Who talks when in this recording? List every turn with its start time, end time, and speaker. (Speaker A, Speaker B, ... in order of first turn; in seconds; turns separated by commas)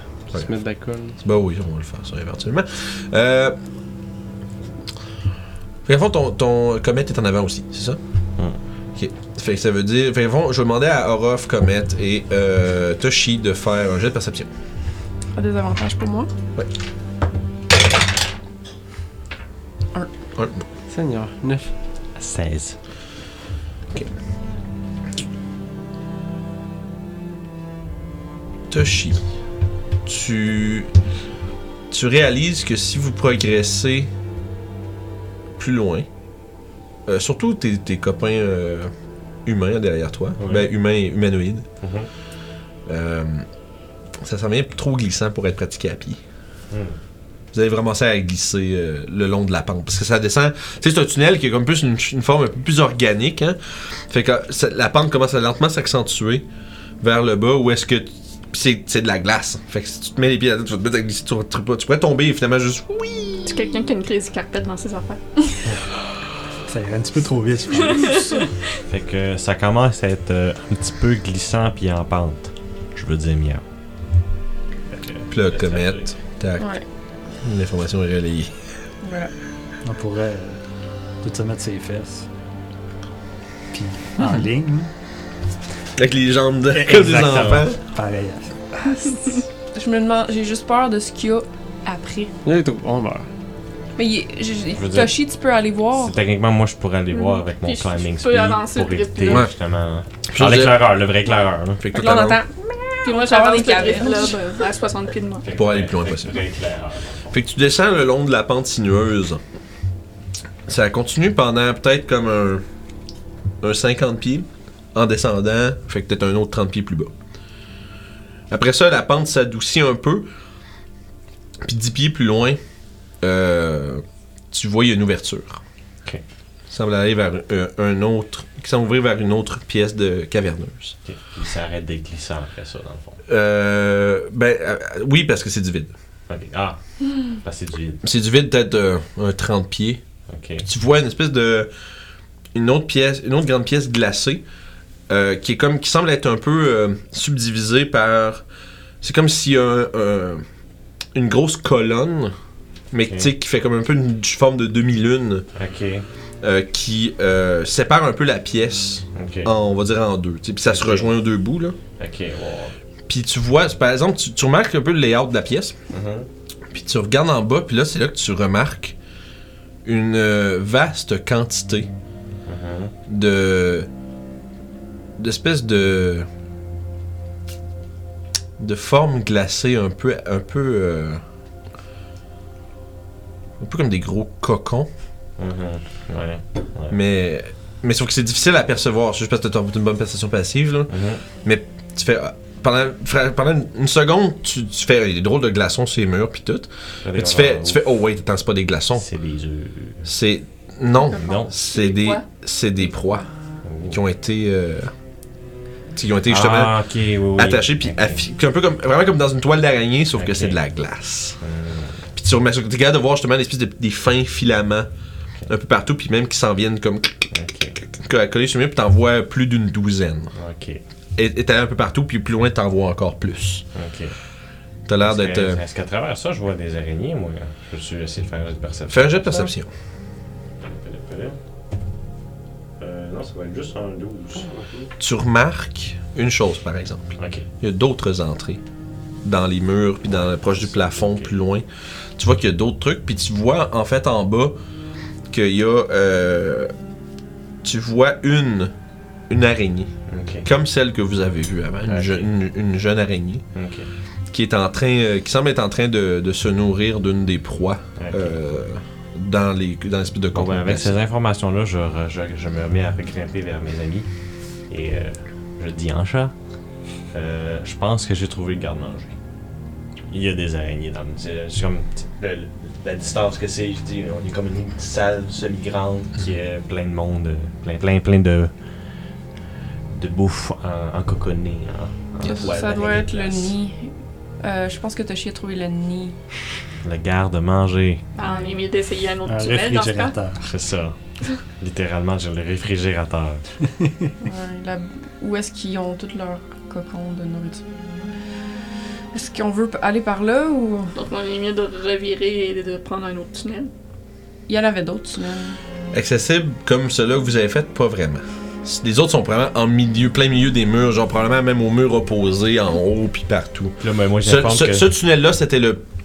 Speaker A: 0.3-1.2, Speaker B: 1.2-3.6, Speaker B: 5.8-8.0, Speaker B: 8.9-14.5, Speaker C: 15.3-16.3, Speaker B: 20.3-20.6, Speaker A: 20.9-21.7, Speaker D: 22.2-22.8, Speaker B: 28.7-29.2, Speaker B: 30.0-30.9, Speaker B: 31.9-34.1, Speaker B: 35.6-36.1, Speaker B: 37.1-38.9, Speaker B: 39.5-41.7, Speaker D: 40.4-40.7, Speaker D: 41.8-42.1, Speaker B: 42.9-43.5, Speaker B: 44.2-46.2, Speaker D: 46.7-47.0, Speaker B: 47.5-56.5, Speaker B: 57.0-63.6, Speaker E: 63.5-65.2, Speaker F: 66.7-68.2, Speaker E: 67.8-68.2, Speaker D: 68.9-73.6, Speaker D: 74.9-76.1, Speaker B: 75.3-76.8, Speaker C: 76.6-76.8, Speaker B: 77.4-78.5, Speaker C: 79.0-79.3, Speaker F: 79.8-80.6, Speaker F: 81.2-82.2, Speaker F: 83.7-84.9, Speaker B: 86.0-87.8, Speaker F: 86.7-89.1, Speaker C: 89.7-92.3, Speaker A: 92.4-93.3, Speaker C: 94.0-96.2, Speaker D: 94.8-95.1, Speaker D: 95.9-101.8, Speaker E: 97.6-99.5, Speaker B: 100.3-100.9, Speaker B: 101.8-102.4, Speaker C: 101.9-104.6, Speaker E: 103.0-105.5, Speaker D: 105.4-107.3, Speaker B: 105.5-106.4, Speaker B: 107.3-109.4, Speaker B: 110.7-112.6, Speaker B: 113.6-117.1, Speaker B: 118.5-120.3, Speaker B: 121.6-122.6, Speaker B: 123.2-125.6, Speaker B: 126.7-131.0, Speaker D: 131.1-133.2, Speaker B: 133.3-135.9, Speaker D: 136.3-138.0, Speaker B: 138.0-140.0, Speaker D: 140.3-140.6, Speaker B: 140.6-141.7, Speaker B: 142.5-144.4, Speaker B: 145.1-148.4, Speaker B: 149.0-150.4, Speaker B: 151.1-152.3, Speaker B: 152.9-155.4, Speaker D: 155.5-156.1, Speaker B: 156.4-161.8, Speaker D: 159.1-159.5, Speaker D: 160.7-161.1, Speaker D: 162.0-162.8, Speaker B: 163.1-165.8, Speaker D: 165.9-166.3, Speaker B: 166.7-168.9, Speaker B: 169.8-171.9, Speaker D: 172.5-172.9, Speaker B: 173.1-173.9, Speaker B: 175.2-176.3, Speaker B: 178.6-181.2, Speaker B: 183.6-184.9, Speaker D: 185.4-186.9, Speaker B: 186.9-199.1, Speaker D: 190.9-191.2, Speaker D: 197.0-197.8, Speaker D: 199.0-200.0, Speaker B: 200.0-203.2, Speaker E: 200.9-202.2, Speaker D: 201.2-201.5, Speaker D: 203.6-204.0, Speaker B: 203.9-204.9, Speaker B: 205.9-206.7, Speaker D: 206.3-208.2, Speaker B: 207.4-211.4, Speaker D: 210.2-210.6, Speaker D: 211.4-212.0, Speaker B: 212.1-214.9, Speaker B: 215.5-217.3, Speaker D: 217.3-217.8, Speaker B: 217.8-220.3, Speaker D: 220.3-220.8, Speaker B: 221.2-223.6, Speaker D: 223.7-224.1, Speaker B: 224.9-225.6, Speaker D: 225.0-229.5, Speaker B: 228.9-229.7, Speaker D: 230.6-231.4, Speaker D: 232.8-234.6, Speaker B: 235.0-238.6, Speaker D: 237.2-237.4, Speaker B: 239.2-241.6, Speaker D: 240.1-241.3, Speaker B: 242.2-244.6, Speaker B: 245.3-246.7, Speaker B: 247.6-248.7, Speaker B: 249.3-249.9, Speaker D: 250.1-250.5, Speaker B: 250.4-253.4, Speaker D: 251.9-252.3, Speaker D: 253.5-253.9, Speaker B: 254.3-260.9, Speaker D: 258.0-258.4, Speaker D: 260.3-264.1, Speaker D: 264.7-266.3, Speaker D: 267.1-269.1, Speaker D: 270.1-278.5, Speaker D: 279.9-283.5, Speaker C: 282.2-286.2, Speaker D: 286.8-288.1, Speaker E: 288.1-290.2, Speaker C: 288.2-288.6, Speaker F: 289.2-290.4, Speaker D: 290.4-290.9, Speaker D: 291.6-293.4, Speaker C: 294.2-297.6, Speaker C: 299.1-300.9, Speaker E: 300.9-303.7, Speaker C: 304.5-305.6, Speaker B: 305.9-315.8, Speaker D: 313.8-314.9